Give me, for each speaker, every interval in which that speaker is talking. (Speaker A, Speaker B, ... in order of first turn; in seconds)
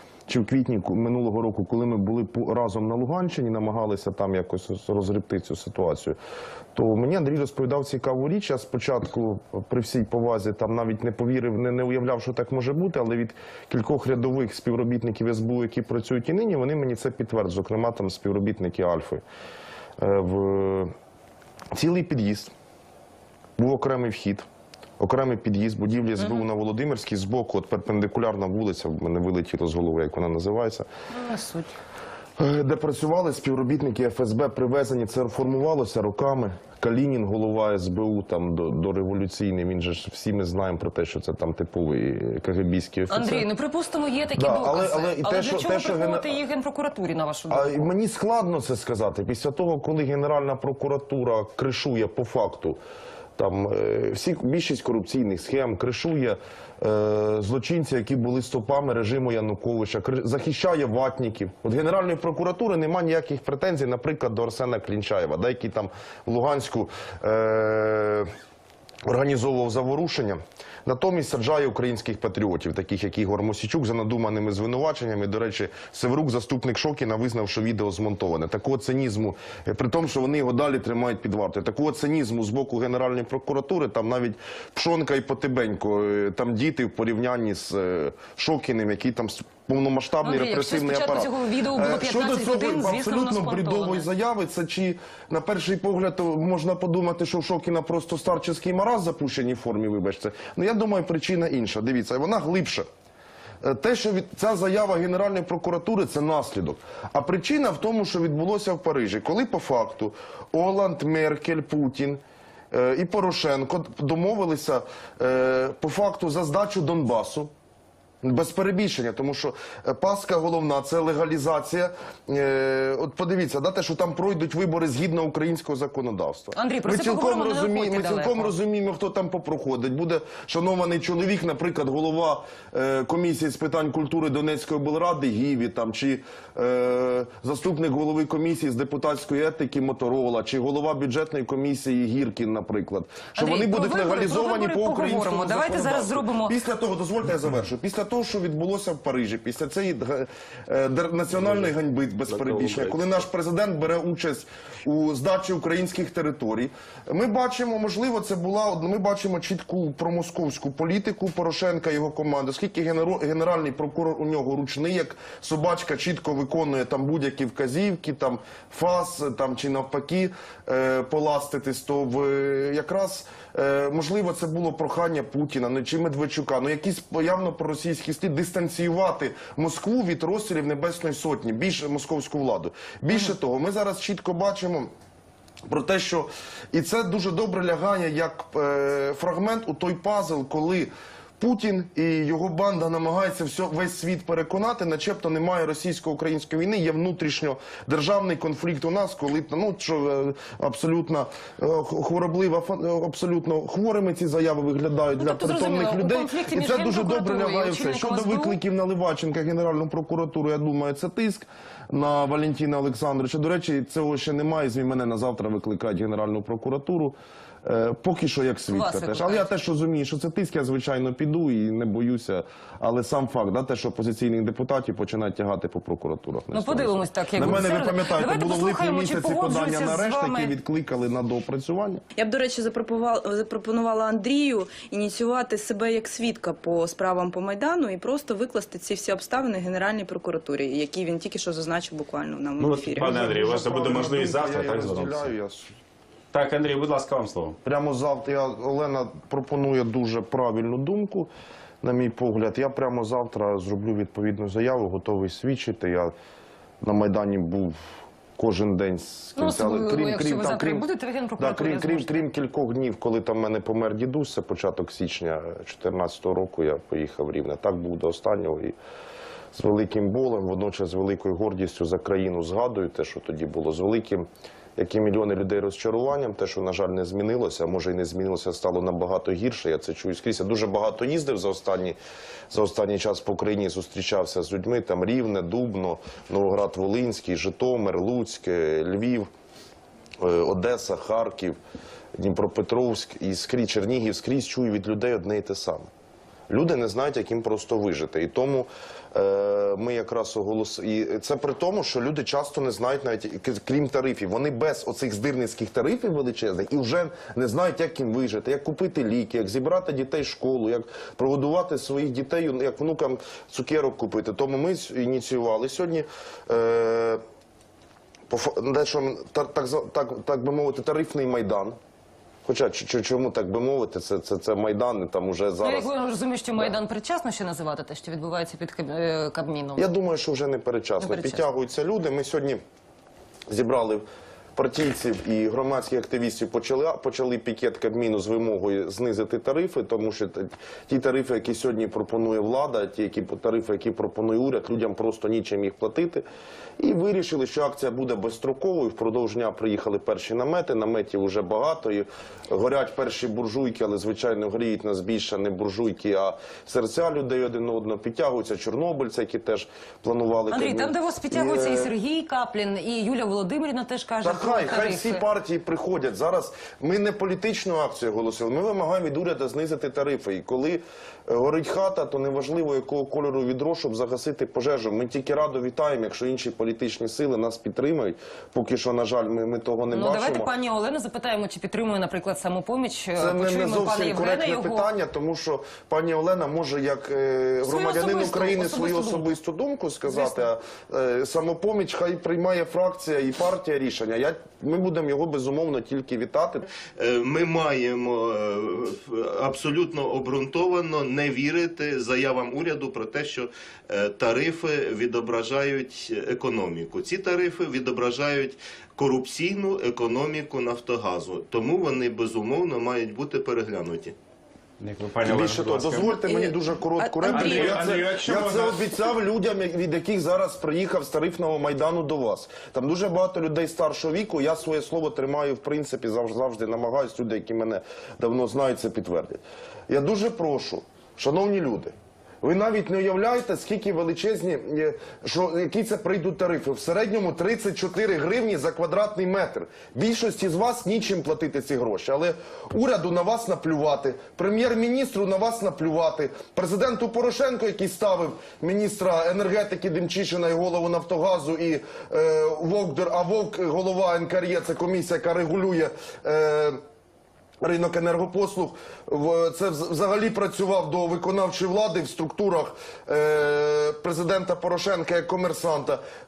Speaker A: 0.3-6.2, 6.8-19.2, 20.0-20.9, 21.7-22.5, 23.6-24.5, 25.0-30.9, 32.4-43.5, 44.3-46.3, 47.5-52.8, 53.4-68.3, 69.0-102.9, 103.6-117.5, 118.2-184.9, 185.7-232.0, 243.0-245.7, 247.6-251.3, 251.8-256.1, 256.8-257.8, 258.4-260.9, 261.4-268.8, 269.5-282.0, 282.5-289.3, 290.2-291.6, 292.1-295.9, 296.5-317.2, 318.3-321.8, 322.4-325.9, 329.8-332.6, 333.5-334.1, 334.6-346.2, 346.8-361.9, 364.2-380.5, 383.2-396.6, 415.2-456.8, 457.6-466.0
Speaker B: 31.2-31.7, 43.1-47.8, 90.2-94.1, 126.5-128.5, 143.4-146.6, 205.2-208.6, 218.7-219.5, 226.5-230.5, 259.4-262.2, 325.6-329.9, 331.0-331.4, 360.5-365.2, 379.9-384.9, 387.6-389.3, 390.1-390.4
Speaker C: 152.5-153.0, 242.6-245.3, 246.3-247.6, 414.8-416.2, 417.2-418.9
Speaker D: 232.2-243.4, 416.3-417.8
Speaker E: 397.0-414.1